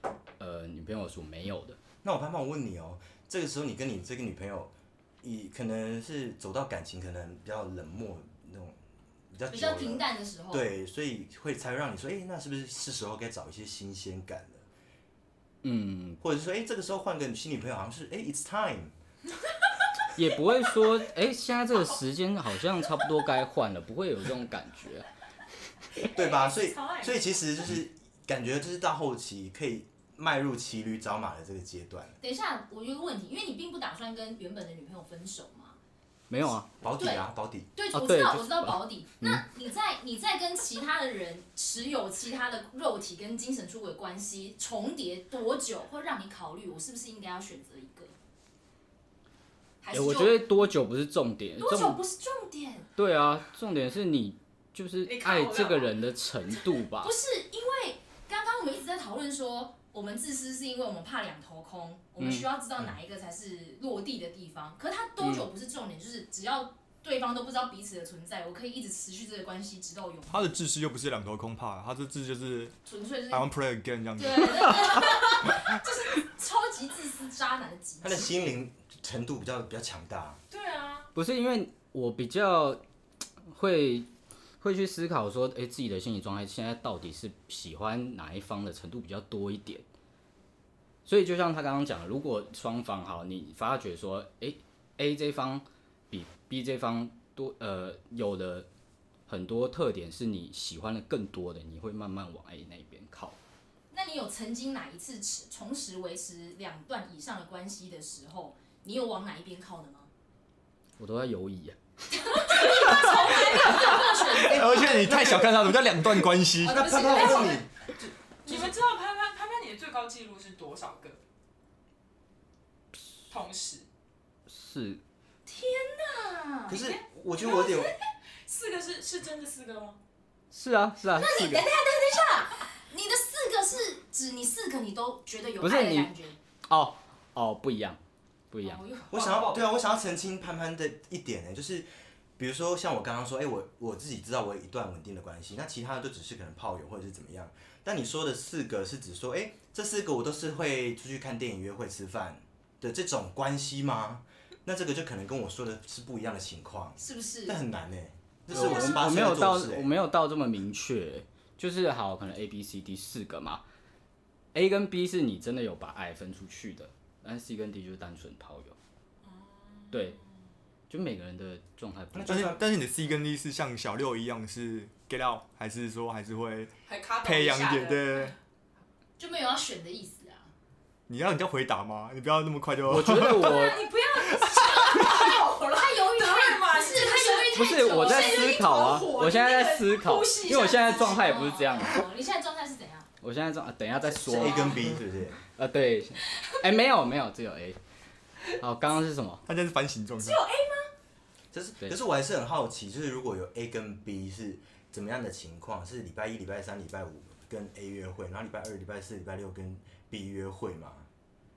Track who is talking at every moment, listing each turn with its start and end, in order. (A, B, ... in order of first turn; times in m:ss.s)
0:00.4-0:01.8 A
0:02.0-0:08.8 B
0:09.3-0:14.6 B
0:09.5-0:10.7 C
0:15.6-0:16.2 A
0:16.2-0:19.0 B
0:20.2-0:25.1 A
0:26.1-0:27.6 D
0:26.1-0:32.2 B
0:32.2-0:35.8 C
0:36.3-0:36.7 A
0:36.8-0:37.7 B
0:36.9-0:48.2 C
0:37.9-0:39.4 A
0:49.8-0:50.7 C
0:49.9-0:52.0 A
0:51.6-0:52.9 C
0:53.0-0:57.1 A
0:55.0-0:56.0 D
0:57.0-1:10.6 C
1:02.2-1:02.5 A
1:05.2-1:05.5 A
1:10.3-1:12.8 E
1:12.9-1:13.5 C
1:13.3-1:15.7 E
1:14.2-1:18.3 C
1:18.0-1:20.4 B
1:20.5-1:21.1 D
1:21.1-1:22.8 A
1:23.5-1:29.9 A
1:31.0-1:38.7 A
1:39.3-1:43.4 A
1:43.9-1:50.1 C
1:51.0-1:51.8 A
1:52.1-1:55.2 C
1:52.6-1:54.2 D
1:52.9-1:56.9 E
1:56.6-1:57.6 C
1:56.6-1:57.7 B
1:56.9-1:57.6 D
1:58.4-2:01.2 D
2:03.3-2:03.9 D
2:04.5-2:05.0 A
2:05.5-2:06.8 C
2:06.7-2:07.9 B
2:06.7-2:10.0 D
2:10.5-2:11.7 A
2:11.2-2:16.4 C
2:15.6-2:16.1 A
2:16.7-2:18.0 A
2:18.5-2:18.8 A
2:18.6-2:19.5 C
2:19.1-2:21.9 B
2:19.1-2:19.7 D
2:22.4-2:39.9 B
2:37.0-2:37.6 C
2:38.5-2:43.6 A
2:44.5-2:48.8 A
2:49.2-2:50.2 D
2:49.9-2:50.2 A
2:50.9-2:52.6 A
2:52.1-2:52.6 B
2:52.2-2:56.7 E
2:56.9-2:58.4 D
2:57.2-2:58.4 E
2:59.2-3:00.5 C
3:01.1-3:05.1 E
3:02.9-3:03.8 A
3:03.5-3:11.4 D
3:04.6-3:08.7 C
3:07.5-3:12.0 A
3:10.7-3:13.1 C
3:13.2-3:14.9 A
3:14.2-3:15.4 B
3:15.4-3:17.8 A
3:18.5-3:19.4 A
3:19.5-3:20.5 E
3:20.2-3:20.8 D
3:21.5-3:31.1 B